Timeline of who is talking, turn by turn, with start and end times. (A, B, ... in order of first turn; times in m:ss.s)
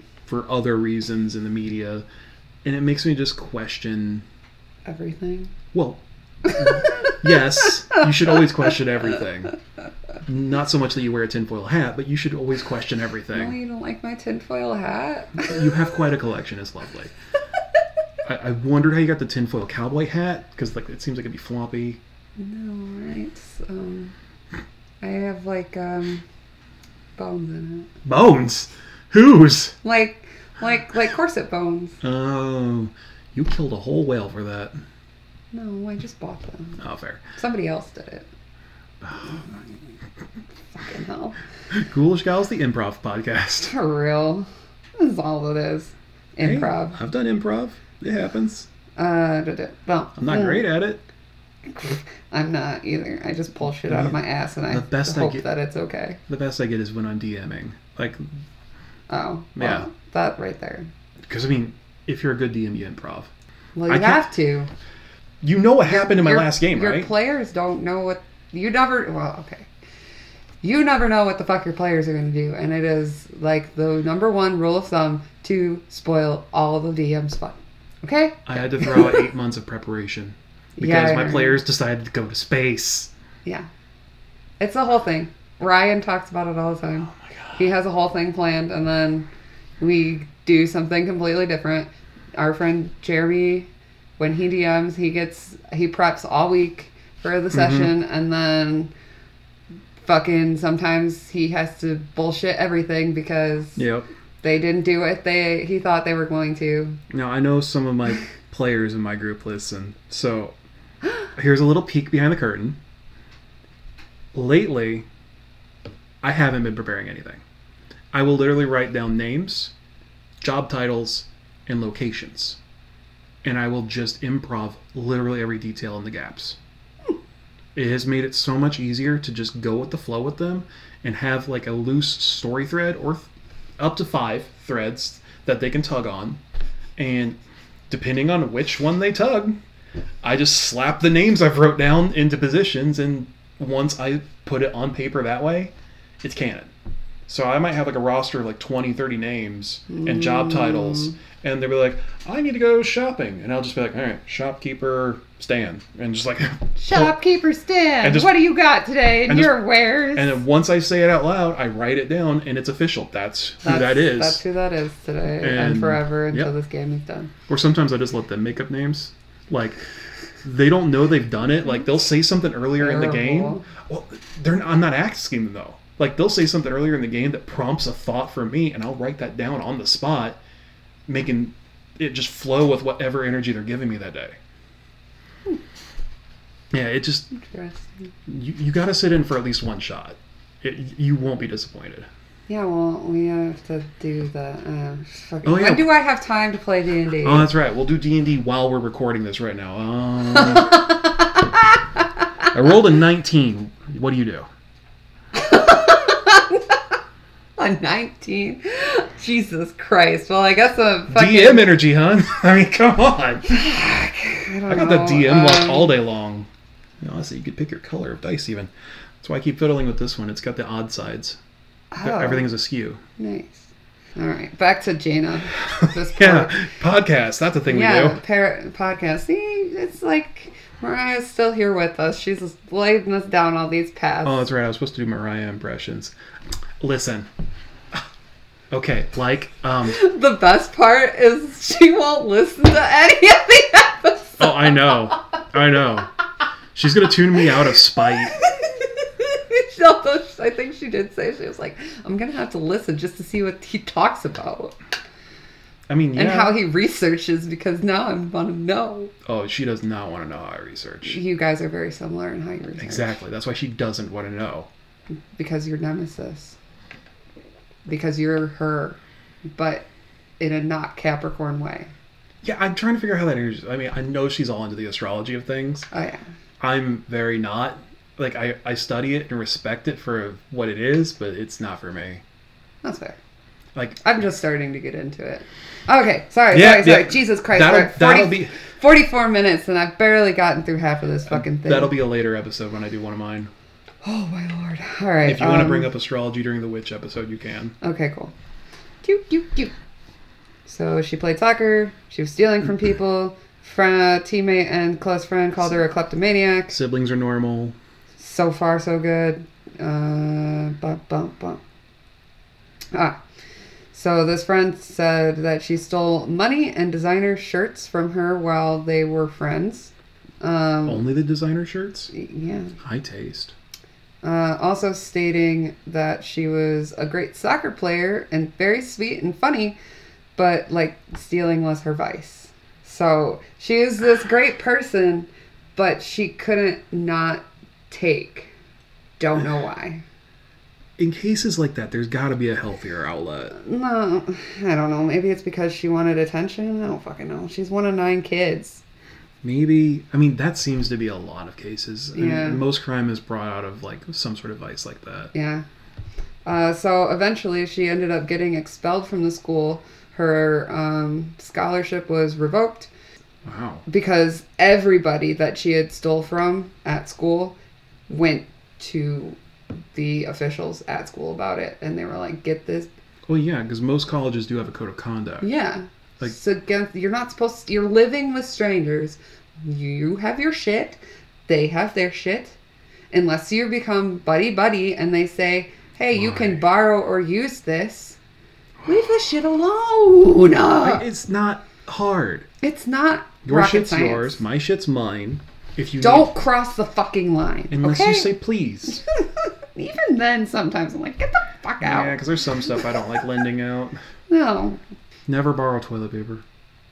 0:00.2-0:02.0 A
0:02.6-0:04.2 A
0:04.8-0:05.5 B
0:05.7-0:09.5 A
0:06.9-0:07.1 B
0:10.2-0:13.6 A
0:13.3-0:15.6 B
0:15.4-0:17.1 A
0:18.2-0:22.0 A
0:22.4-0:24.1 B
0:25.0-0:26.2 B
0:27.2-0:27.9 B
0:28.0-0:29.8 A
0:29.8-0:32.0 B
0:32.0-0:34.7 A
0:35.5-0:36.8 B
0:36.8-0:37.2 A
0:37.3-0:38.3 B
0:39.0-0:39.4 A
0:40.7-0:41.4 B
0:41.7-0:43.7 A
0:43.6-0:47.0 B
0:46.4-0:48.7 A
0:49.0-0:50.7 B
0:50.2-0:51.0 A
0:51.7-0:56.2 B
0:53.8-0:54.2 A
0:54.7-0:55.4 A
0:56.3-0:58.2 A
0:59.1-1:00.9 B
0:59.6-0:59.9 A
1:01.3-1:03.3 A
1:03.8-1:04.7 B
1:03.9-1:04.3 A
1:05.4-1:07.1 A
1:05.8-1:09.7 B
1:10.6-1:19.3 B
1:18.4-1:23.1 A
1:20.8-1:21.6 B
1:24.6-1:29.3 B
1:27.1-1:27.7 A
1:29.8-1:38.9 B
1:37.5-1:37.9 A
1:40.0-1:43.8 B
1:43.8-1:44.1 A
1:44.4-1:47.0 B
1:47.1-1:50.5 A
1:51.3-1:52.8 A
1:54.3-1:55.0 A
1:56.2-1:57.4 A
1:58.1-1:59.7 A
2:00.4-2:02.6 A
2:03.4-2:06.6 A
2:07.7-2:16.4 A
2:17.0-2:17.4 A
2:17.9-2:19.6 A
2:20.2-2:26.7 A
2:27.3-2:37.1 A
2:29.9-2:31.1 B
2:36.8-2:40.4 B
2:38.0-2:38.3 A
2:39.3-2:39.6 A
2:40.1-2:44.4 A
2:43.6-2:47.3 B
2:45.4-2:46.5 A
2:47.5-2:49.8 A
2:50.4-3:00.4 A
2:52.8-2:53.7 B
3:01.1-3:04.4 A
3:06.7-3:07.3 A
3:07.3-3:08.1 B
3:08.3-3:12.1 A
3:12.5-3:17.5 B
3:15.4-3:15.9 A
3:17.2-3:20.9 A
3:20.4-3:21.3 B
3:22.5-3:24.5 A
3:25.3-3:26.8 B
3:27.6-3:31.7 B
3:31.1-3:33.5 A
3:33.5-3:35.9 B
3:34.7-3:36.5 A
3:37.0-3:38.7 A
3:39.2-3:41.4 A
3:41.9-3:42.5 B
3:42.0-3:43.0 A
3:43.2-3:46.6 B
3:45.8-3:48.2 A
3:47.7-3:54.4 B
3:54.2-3:56.1 A
3:56.8-3:57.3 A
3:58.7-4:00.0 A
3:59.9-4:05.2 B
4:04.4-4:06.1 A
4:06.7-4:08.4 A
4:08.3-4:14.7 B
4:15.9-4:16.6 A
4:16.1-4:19.1 B
4:19.2-4:21.2 A
4:21.0-4:23.2 B
4:22.8-4:24.7 A
4:25.4-4:26.6 B
4:27.8-4:29.0 B
4:29.5-4:29.8 B
4:30.4-4:31.9 B
4:32.4-4:35.9 A
4:35.9-4:36.2 B
4:36.6-4:42.2 A
4:42.8-4:43.2 B
4:43.7-4:44.0 A
4:44.0-4:52.0 B
4:46.5-4:48.6 A
4:51.3-4:53.5 A
4:54.0-4:55.9 B
4:55.2-4:57.8 A
4:57.8-4:58.3 B
4:59.0-4:59.7 B
5:00.6-5:06.8 B
5:06.7-5:07.8 A
5:08.2-5:11.6 B
5:12.9-5:13.2 B
5:13.9-5:21.0 B
5:20.8-5:22.1 A
5:22.1-5:22.8 B
5:22.8-5:23.5 A
5:24.2-5:29.8 B
5:30.4-5:38.5 B
5:39.2-5:40.0 B
5:41.0-5:43.6 A
5:43.5-5:48.8 B
5:49.4-5:55.3 A
5:52.1-5:52.6 B
5:55.3-5:55.6 B
5:56.4-6:02.9 B
6:03.4-6:03.8 A
6:03.9-6:07.6 B
6:08.1-6:09.4 B
6:09.9-6:12.9 B
6:13.3-6:15.5 A
6:15.4-6:22.6 B
6:23.1-6:28.2 B
6:26.1-6:26.6 A
6:28.8-6:31.0 B
6:30.8-6:32.5 A
6:32.6-6:34.4 B
6:33.4-6:36.3 A
6:36.0-6:38.3 B
6:37.7-6:39.0 A
6:39.2-6:42.2 B
6:41.8-6:44.0 A
6:44.3-6:44.8 B
6:45.3-6:46.4 A